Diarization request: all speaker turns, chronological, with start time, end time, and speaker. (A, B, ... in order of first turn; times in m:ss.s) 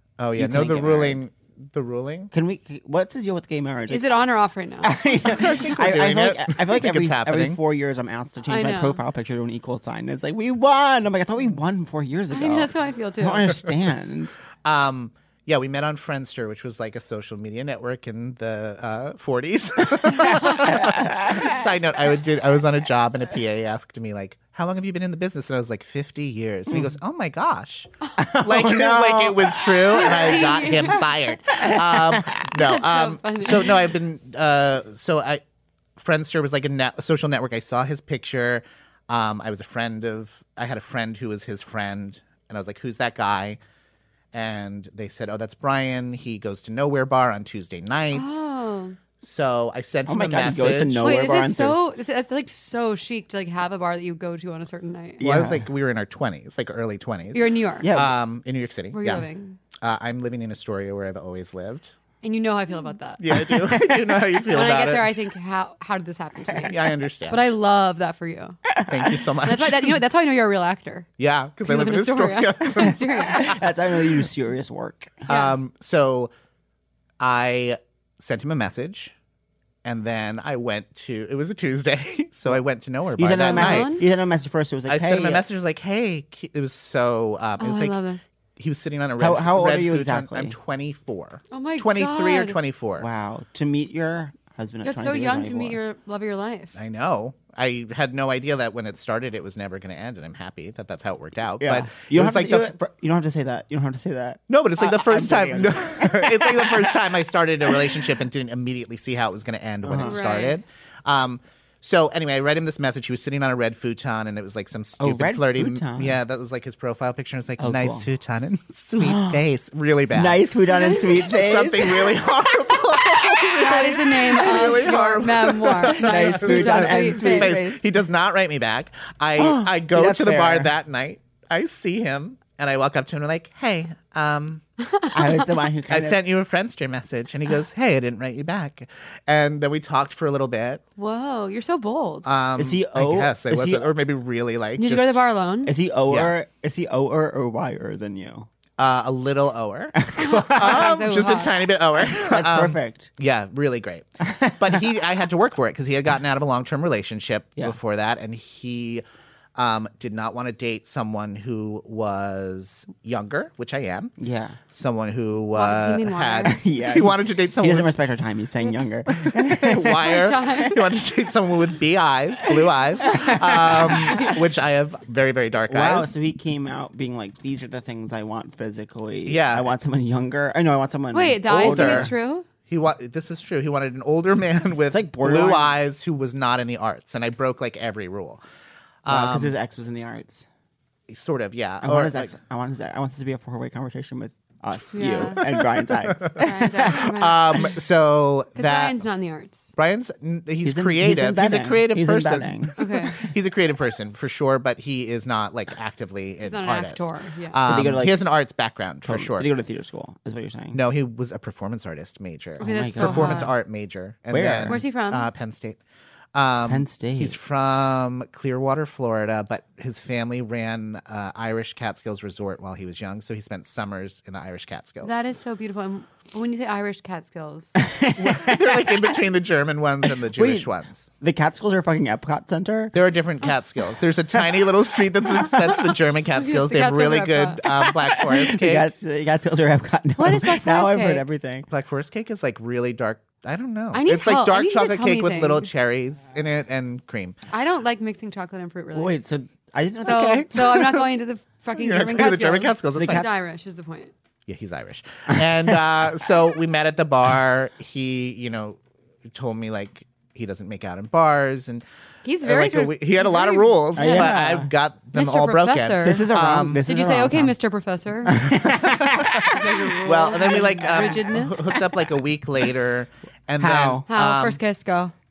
0:00.2-0:02.3 A
0:00.4-0:01.2 B
0:02.3-0:04.1 B
0:03.9-0:05.0 C
0:04.8-0:14.4 B
0:05.2-0:07.6 A
0:08.5-0:09.0 C
0:12.3-0:13.6 C
0:14.6-0:35.4 A
0:20.1-0:21.6 B
0:26.7-0:27.0 B
0:28.2-0:30.6 B
0:29.9-0:31.0 C
0:31.6-0:32.4 B
0:32.5-0:33.7 C
0:36.0-0:43.6 A
0:44.3-0:48.5 A
0:48.1-0:49.0 C
0:49.2-0:51.1 A
0:50.1-0:51.8 B
0:51.0-0:55.2 C
0:55.2-0:55.7 B
0:55.2-0:59.2 A
0:57.3-0:57.9 C
0:57.8-0:58.1 B
0:58.9-0:59.6 C
0:59.8-1:02.0 A
1:02.2-1:03.2 C
1:03.2-1:05.2 A
1:04.5-1:08.6 C
1:06.7-1:07.5 A
1:08.7-1:09.2 B
1:08.9-1:10.0 A
1:09.4-1:11.1 C
1:11.2-1:13.6 A
1:11.6-1:13.5 C
1:13.2-1:15.2 B
1:15.2-1:16.3 A
1:15.3-1:15.6 C
1:17.2-1:19.1 A
1:19.8-1:23.9 A
1:23.2-1:25.4 B
1:23.5-1:24.0 C
1:24.9-1:28.0 A
1:27.6-1:28.2 C
1:28.6-1:33.1 A
1:29.2-1:30.6 B
1:31.5-1:32.6 C
1:33.0-1:35.8 B
1:34.8-1:36.7 C
1:36.7-1:42.7 A
1:41.6-1:47.1 B
1:44.5-2:00.4 A
1:47.7-1:48.1 B
1:49.8-1:50.3 B
1:50.0-1:50.6 C
1:55.0-1:56.2 B
1:57.6-1:58.0 B
1:59.0-1:59.4 B
2:00.1-2:03.3 B
2:01.0-2:14.6 A
2:03.4-2:07.5 C
2:05.6-2:07.8 B
2:09.4-2:10.7 B
2:15.1-2:16.2 B
2:15.9-2:20.8 A
2:21.0-2:22.3 C
2:22.2-2:25.2 A
2:22.6-2:23.9 B
2:24.8-2:25.7 C
2:25.6-2:28.5 B
2:26.1-2:26.3 A
2:28.8-2:39.0 A
2:30.0-2:30.9 B
2:30.2-2:31.5 C
2:32.0-2:33.1 B
2:34.2-2:34.8 B
2:39.6-2:44.1 A
2:44.2-2:44.6 B
2:44.7-2:47.9 A
2:45.5-2:46.6 C
2:46.4-2:50.3 B
2:49.2-2:56.1 A
2:50.0-2:50.8 C
2:53.0-2:54.4 B
2:55.7-3:02.1 B
2:59.2-2:59.7 A
3:01.1-3:02.4 C
3:01.5-3:02.1 A
3:02.7-3:08.4 A
3:04.9-3:05.7 B
3:09.0-3:09.6 A
3:09.1-3:10.4 B
3:11.1-3:12.3 A
3:11.8-3:17.6 B
3:14.9-3:15.4 C
3:15.5-3:19.0 A
3:16.4-3:17.3 C
3:18.6-3:19.7 C
3:19.7-3:29.5 A
3:20.6-3:23.2 B
3:22.8-3:23.2 C
3:26.4-3:27.6 C
3:27.6-3:28.2 B
3:29.0-3:30.8 B
3:30.7-3:35.8 A
3:32.6-3:33.5 C
3:32.6-3:33.5 B
3:34.3-3:34.8 B
3:34.7-3:35.3 C
3:36.3-3:45.2 A
3:36.6-3:37.4 B
3:45.0-3:47.7 C
3:47.8-3:49.1 B
3:48.2-3:51.1 A
3:50.1-3:53.0 B
3:52.9-3:58.9 A
3:54.3-3:54.6 B
3:55.3-3:55.9 B
3:56.3-3:57.6 C
3:57.6-4:01.7 B
4:00.2-4:01.2 C
4:01.7-4:07.4 A
4:03.9-4:05.7 C
4:07.5-4:09.1 C
4:08.9-4:10.5 B
4:10.0-4:14.1 C
4:10.0-4:11.1 A
4:11.7-4:13.3 A
4:13.0-4:13.3 B
4:14.5-4:21.8 A
4:15.3-4:15.6 B
4:22.2-4:24.3 C
4:22.4-4:26.8 A
4:24.0-4:24.7 B
4:25.1-4:26.3 C
4:26.0-4:27.5 B
4:26.8-4:28.4 C
4:28.2-4:31.8 B
4:29.3-4:34.6 A
4:29.4-4:31.7 C
4:33.6-4:34.0 B
4:34.1-4:35.1 C